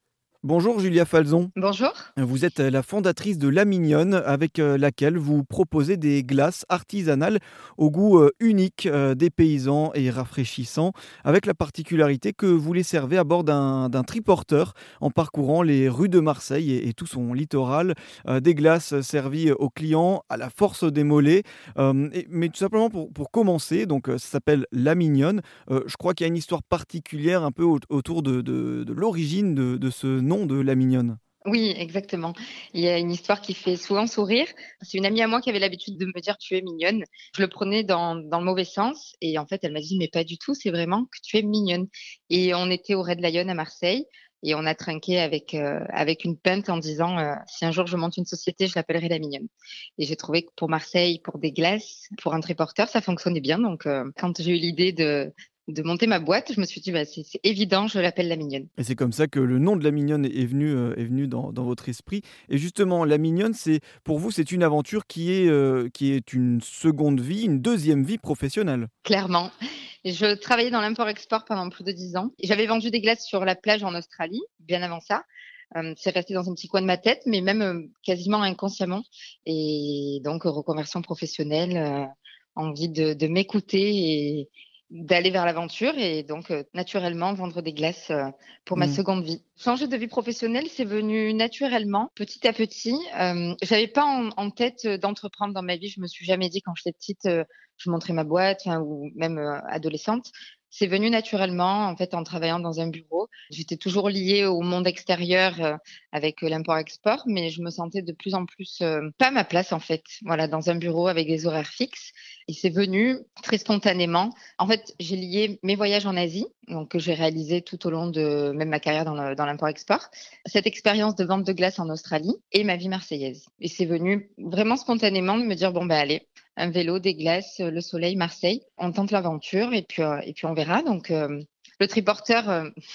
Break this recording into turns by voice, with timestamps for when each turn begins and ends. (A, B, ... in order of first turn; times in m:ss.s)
0:00.4-0:01.5 A
0:01.6-0:02.1 B
0:02.2-0:31.2 A
0:31.5-0:58.7 B
0:58.8-1:08.9 A
1:09.0-1:09.5 B
1:10.0-1:15.2 B
1:15.8-2:12.7 B